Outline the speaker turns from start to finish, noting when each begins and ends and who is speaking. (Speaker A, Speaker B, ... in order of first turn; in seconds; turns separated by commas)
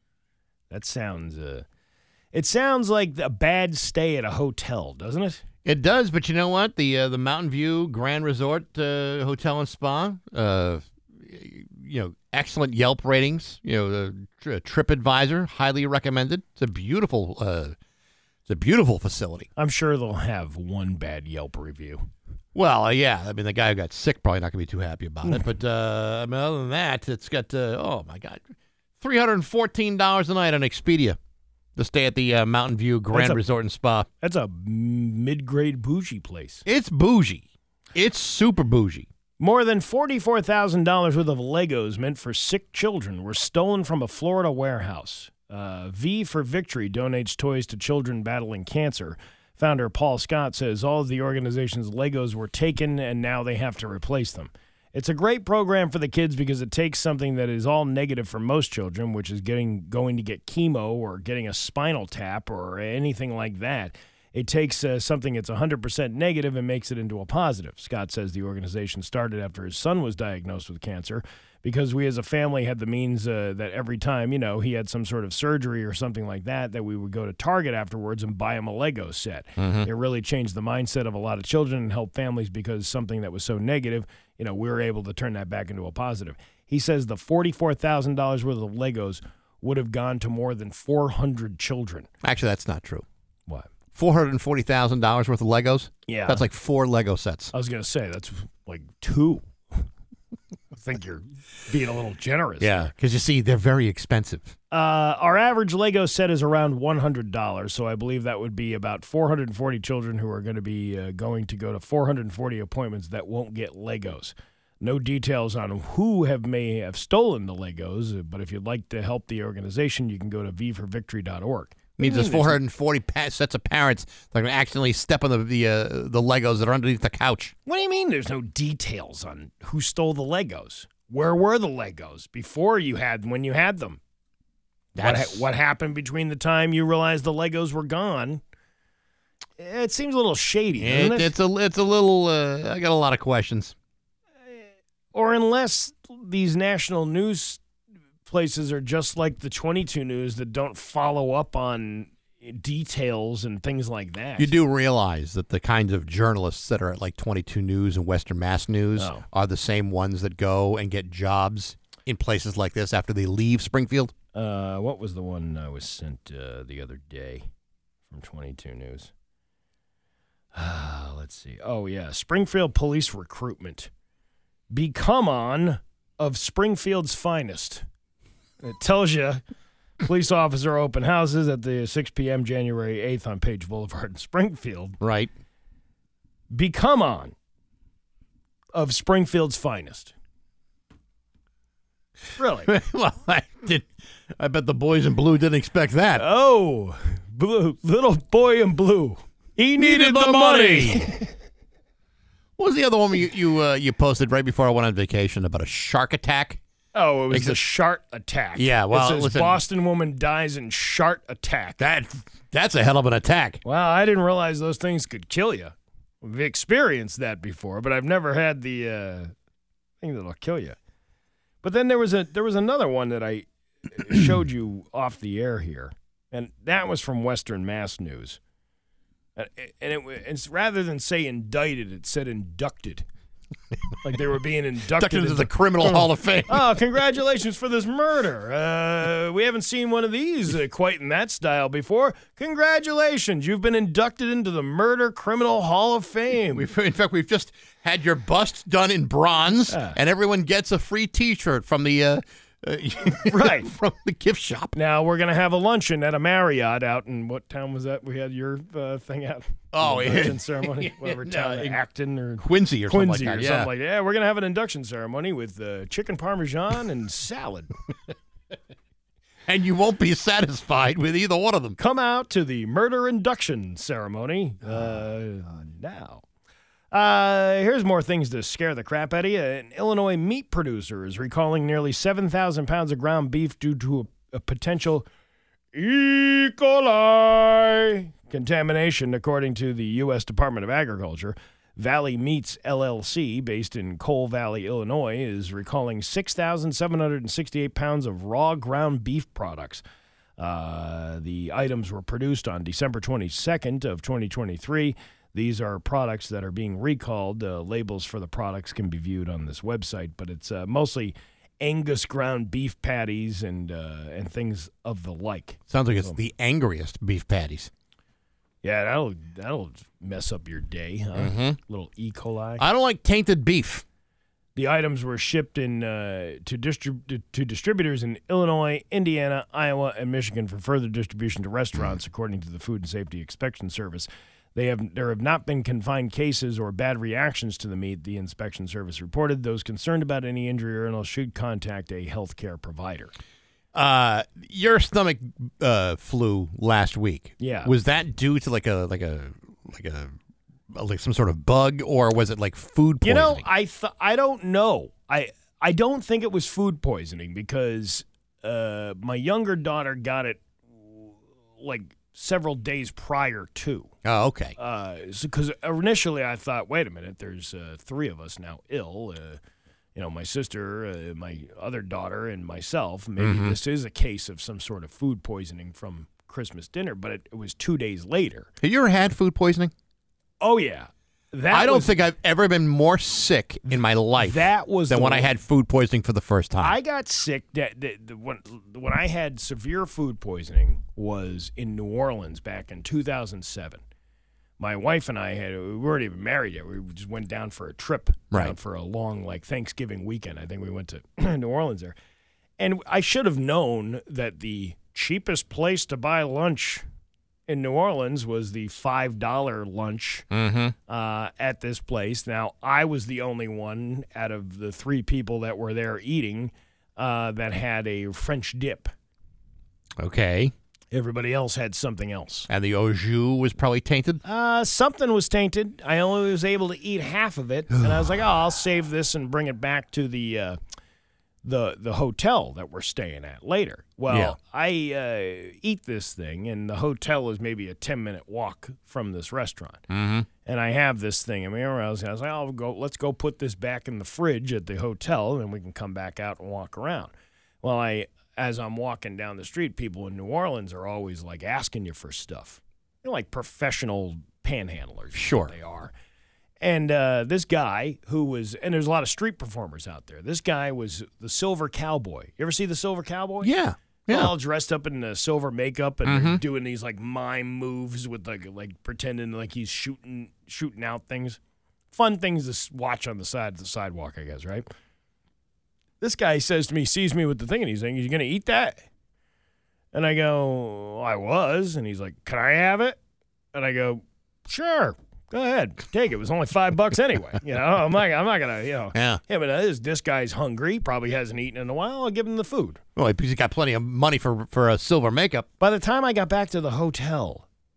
Speaker A: 0.7-1.6, Speaker A: 2.3-5.4, Speaker B: 5.7-17.7, Speaker B: 18.5-19.5, Speaker A: 19.6-22.1, Speaker B: 22.6-28.4, Speaker B: 29.0-31.2, Speaker B: 31.8-34.1, Speaker A: 33.1-33.4, Speaker A: 34.2-36.6, Speaker B: 36.6-37.4, Speaker B: 37.9-39.1, Speaker A: 39.4-92.1, Speaker B: 79.6-79.9, Speaker B: 92.2-93.0, Speaker B: 93.9-97.5, Speaker A: 96.1-96.4, Speaker A: 97.5-99.8, Speaker A: 100.7-102.9, Speaker B: 102.6-104.5, Speaker A: 104.7-122.6, Speaker B: 122.0-127.5, Speaker A: 127.7-134.0, Speaker B: 134.9-135.5, Speaker A: 135.0-138.4, Speaker A: 139.6-141.3, Speaker B: 140.8-143.7, Speaker A: 145.1-147.6, Speaker A: 148.3-154.5, Speaker B: 154.4-164.1, Speaker A: 159.0-159.2, Speaker A: 164.3-167.4, Speaker A: 168.1-169.1, Speaker A: 170.5-173.9, Speaker A: 174.7-177.8, Speaker A: 178.6-179.4, Speaker A: 180.0-185.0, Speaker B: 185.0-185.3, Speaker A: 186.5-187.3, Speaker A: 188.7-190.1, Speaker A: 192.4-192.7, Speaker B: 192.7-196.2, Speaker A: 196.2-201.3, Speaker B: 199.8-201.1, Speaker B: 202.6-206.6, Speaker A: 206.9-211.8, Speaker B: 207.3-207.6, Speaker B: 208.6-209.6, Speaker B: 211.8-213.6, Speaker A: 213.7-219.3, Speaker A: 220.0-220.8, Speaker A: 221.6-228.4, Speaker A: 229.4-233.0, Speaker A: 234.0-246.7, Speaker B: 235.0-236.7, Speaker B: 246.5-254.7, Speaker A: 249.7-249.9, Speaker A: 253.3-253.7, Speaker A: 254.7-267.7, Speaker B: 259.7-261.8, Speaker B: 262.4-263.7, Speaker B: 269.5-271.8, Speaker A: 271.8-276.2, Speaker A: 276.9-285.1, Speaker A: 285.7-299.8, Speaker A: 300.4-316.2, Speaker B: 315.7-317.7, Speaker A: 318.6-322.6, Speaker B: 321.1-321.6, Speaker B: 322.6-323.8, Speaker A: 324.6-343.1, Speaker B: 343.7-350.1, Speaker A: 347.4-347.7, Speaker B: 350.7-353.4, Speaker A: 353.0-363.9, Speaker B: 364.1-364.5, Speaker A: 364.6-369.4, Speaker A: 369.9-378.5, Speaker B: 373.2-373.6, Speaker B: 378.6-379.7, Speaker A: 380.4-381.9, Speaker B: 381.5-386.8, Speaker A: 384.2-385.3, Speaker A: 386.6-393.8, Speaker A: 394.6-401.9, Speaker A: 402.6-406.8, Speaker A: 407.5-410.3, Speaker B: 410.3-410.7, Speaker A: 410.9-418.9, Speaker B: 420.0-420.5, Speaker A: 420.9-422.5, Speaker B: 422.5-424.2, Speaker A: 424.2-430.6, Speaker A: 431.4-439.8, Speaker B: 434.1-434.4, Speaker B: 439.9-440.3, Speaker A: 440.4-455.9, Speaker B: 455.1-455.5, Speaker A: 456.6-463.5, Speaker B: 463.4-464.3, Speaker A: 464.1-471.4, Speaker B: 466.1-466.4, Speaker A: 471.9-474.6, Speaker A: 476.0-478.8, Speaker A: 479.9-483.0, Speaker A: 483.5-492.8, Speaker B: 488.9-489.2, Speaker B: 492.9-495.4, Speaker A: 495.6-497.4